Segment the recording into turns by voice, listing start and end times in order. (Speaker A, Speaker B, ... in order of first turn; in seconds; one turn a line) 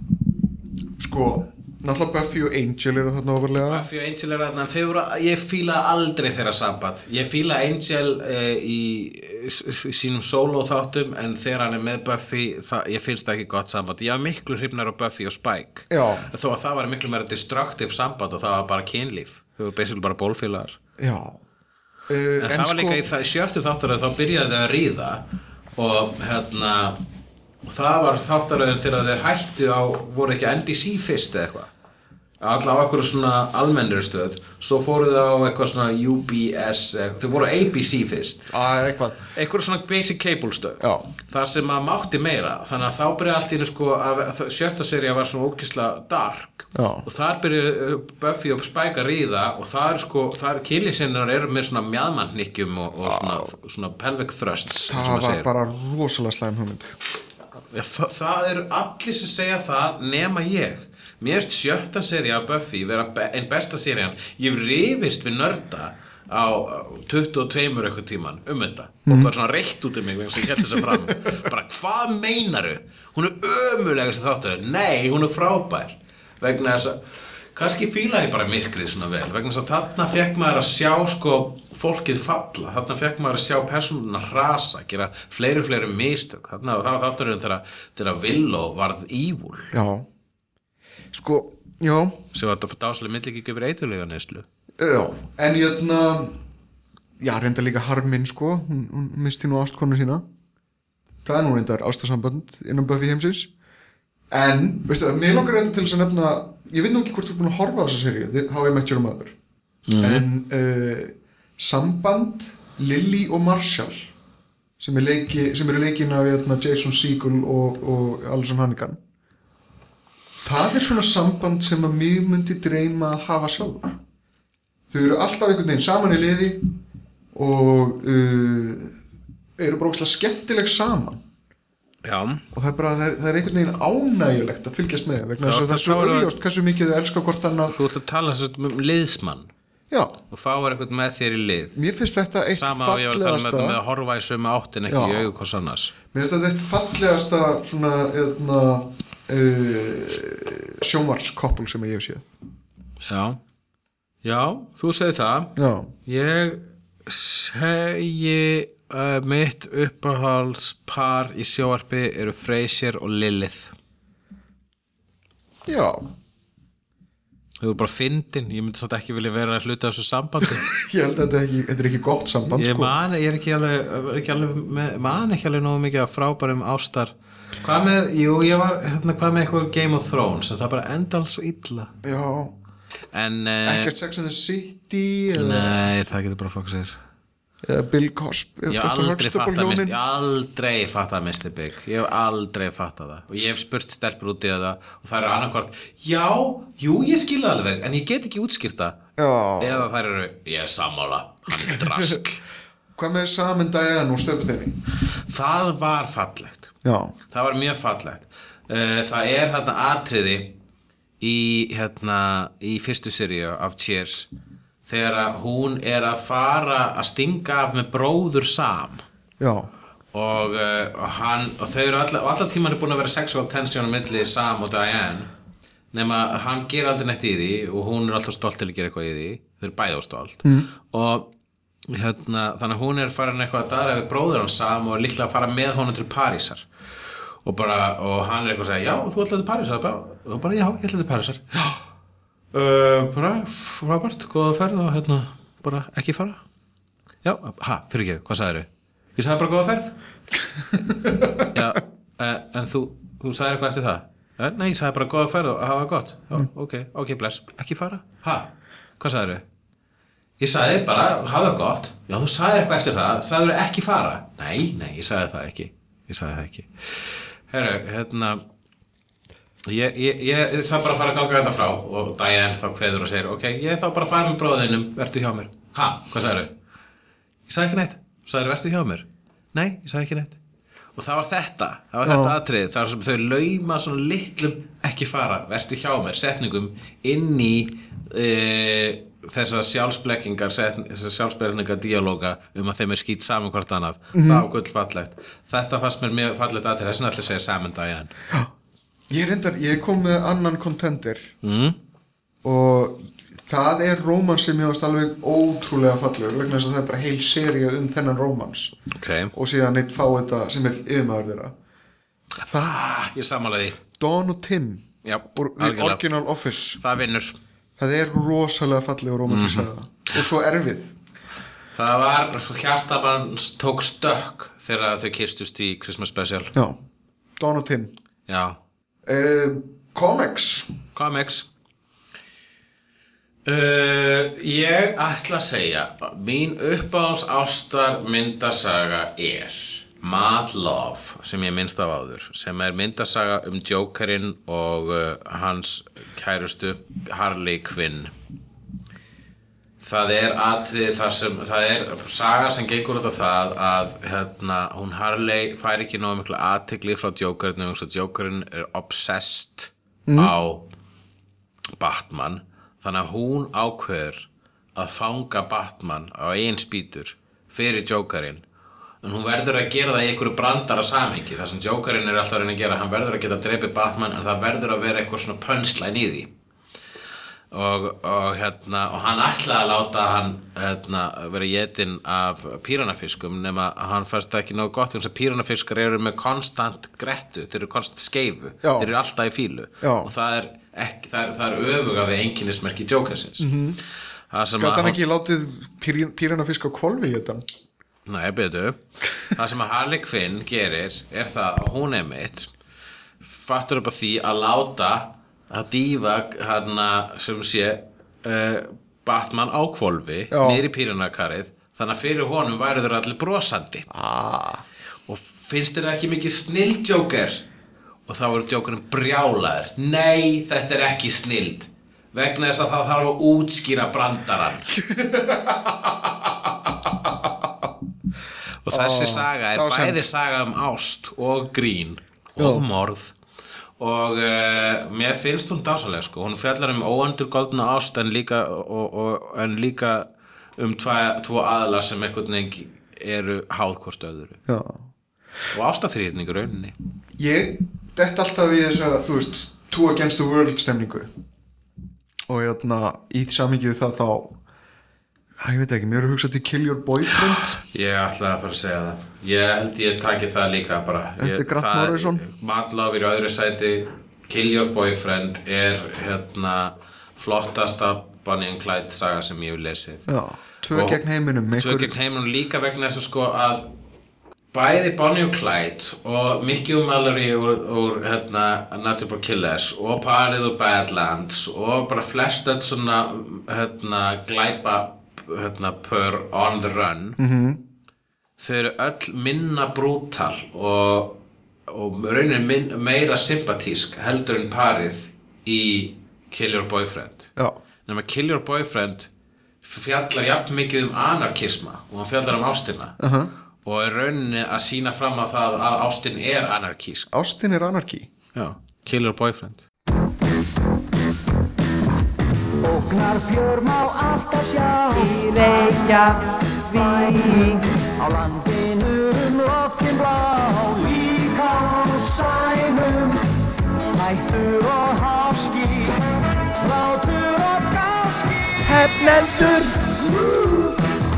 Speaker A: 1.0-3.9
Speaker B: 3.6-20.8
Speaker A: 15.9-16.3
Speaker A: 21.0-21.4
Speaker A: 22.1-23.0
Speaker B: 22.4-25.2
Speaker B: 25.8-27.0
Speaker B: 27.6-31.7
Speaker B: 32.4-38.5
Speaker A: 38.5-39.3
Speaker B: 39.3-55.5
Speaker A: 40.8-41.1
Speaker A: 46.7-47.0
Speaker A: 53.0-53.5
Speaker A: 54.9-56.9
Speaker B: 57.7-77.0
Speaker A: 70.6-71.2
Speaker B: 77.5-89.7
Speaker A: 89.7-90.0
Speaker A: 91.1-92.2
Speaker B: 92.3-94.5
Speaker A: 94.8-96.3
Speaker A: 97.2-100.2
Speaker A: 101.2-103.5
Speaker A: 104.3-109.3
Speaker B: 109.9-110.2
Speaker A: 110.0-114.1
Speaker A: 114.8-119.0
Speaker A: 120.4-124.0
Speaker A: 124.9-126.7
Speaker A: 127.3-128.9
Speaker A: 129.6-131.2
Speaker B: 132.0-132.4
Speaker A: 132.5-137.8
Speaker B: 135.4-136.3
Speaker B: 137.7-139.5
Speaker A: 139.9-140.2
Speaker B: 140.3-141.8
Speaker A: 141.7-143.8
Speaker B: 142.5-145.9
Speaker A: 144.9-145.3
Speaker A: 146.1-152.3
Speaker B: 153.1-153.4
Speaker B: 154.2-155.5
Speaker A: 155.6-155.9
Speaker B: 156.1-163.7
Speaker A: 165.7-166.0
Speaker B: 167.6-170.7
Speaker A: 170.4-172.9
Speaker B: 172.5-181.9
Speaker A: 182.0-182.5
Speaker B: 183.1-183.9
Speaker A: 183.6-185.8
Speaker B: 185.3-187.0
Speaker A: 187.6-189.9
Speaker B: 188.7-199.0
Speaker A: 199.2-199.9
Speaker B: 199.6-202.4
Speaker A: 201.6-202.2
Speaker A: 202.9-204.8
Speaker B: 205.3-206.7
Speaker A: 206.8-207.1
Speaker B: 207.3-210.5
Speaker B: 211.2-214.3
Speaker B: 214.8-219.0
Speaker A: 219.4-219.7
Speaker B: 220.1-225.3
Speaker B: 225.9-231.3
Speaker A: 230.4-230.7
Speaker B: 231.9-236.7
Speaker B: 237.4-241.8
Speaker B: 242.5-246.4
Speaker B: 247.2-249.9
Speaker A: 250.9-251.4
Speaker B: 251.5-259.4
Speaker B: 260.4-266.7
Speaker B: 267.5-268.4
Speaker B: 269.7-276.5
Speaker B: 277.5-280.4
Speaker B: 280.9-298.1
Speaker A: 282.0-282.4
Speaker A: 294.1-294.4
Speaker A: 299.1-301.3
Speaker B: 301.4-301.8
Speaker A: 302.4-308.8
Speaker B: 308.9-309.3
Speaker A: 309.3-311.5
Speaker A: 312.4-312.8
Speaker B: 312.4-313.8
Speaker A: 313.9-316.8
Speaker B: 315.0-316.0
Speaker B: 316.8-317.4
Speaker A: 317.8-320.9
Speaker B: 319.3-319.7
Speaker B: 321.7-326.5
Speaker A: 326.5-326.8
Speaker A: 327.4-327.9
Speaker B: 328.3-328.6
Speaker A: 329.0-330.7
Speaker B: 330.9-331.5
Speaker B: 333.4-348.1
Speaker B: 349.8-360.7
Speaker A: 360.1-360.3
Speaker B: 361.8-368.4
Speaker B: 369.0-376.3
Speaker B: 377.5-393.5
Speaker A: 388.6-388.9
Speaker A: 389.8-390.1
Speaker A: 393.4-393.8
Speaker B: 394.3-395.0
Speaker A: 394.6-397.4
Speaker B: 398.1-402.5
Speaker B: 403.2-413.9
Speaker A: 410.3-410.6
Speaker A: 413.9-414.6
Speaker B: 415.1-417.4
Speaker B: 418.1-424.7
Speaker A: 424.7-427.7
Speaker B: 428.6-433.1
Speaker A: 428.7-430.0
Speaker A: 432.4-432.6
Speaker B: 433.8-444.4
Speaker A: 444.4-444.9
Speaker B: 445.5-446.7
Speaker A: 447.2-451.1
Speaker A: 452.3-454.4
Speaker A: 455.4-457.6
Speaker B: 457.6-470.1
Speaker A: 461.2-462.2
Speaker A: 470.1-471.9
Speaker B: 470.7-471.0
Speaker B: 471.5-473.7
Speaker B: 474.5-487.2
Speaker A: 487.2-487.6
Speaker B: 488.4-497.3
Speaker B: 497.9-499.1
Speaker B: 499.6-503.0
Speaker A: 503.0-503.3
Speaker B: 503.6-507.1
Speaker A: 507.1-508.1
Speaker B: 508.3-509.6
Speaker C: 512.6-523.2
Speaker C: 523.9-526.0
Speaker C: 526.5-530.8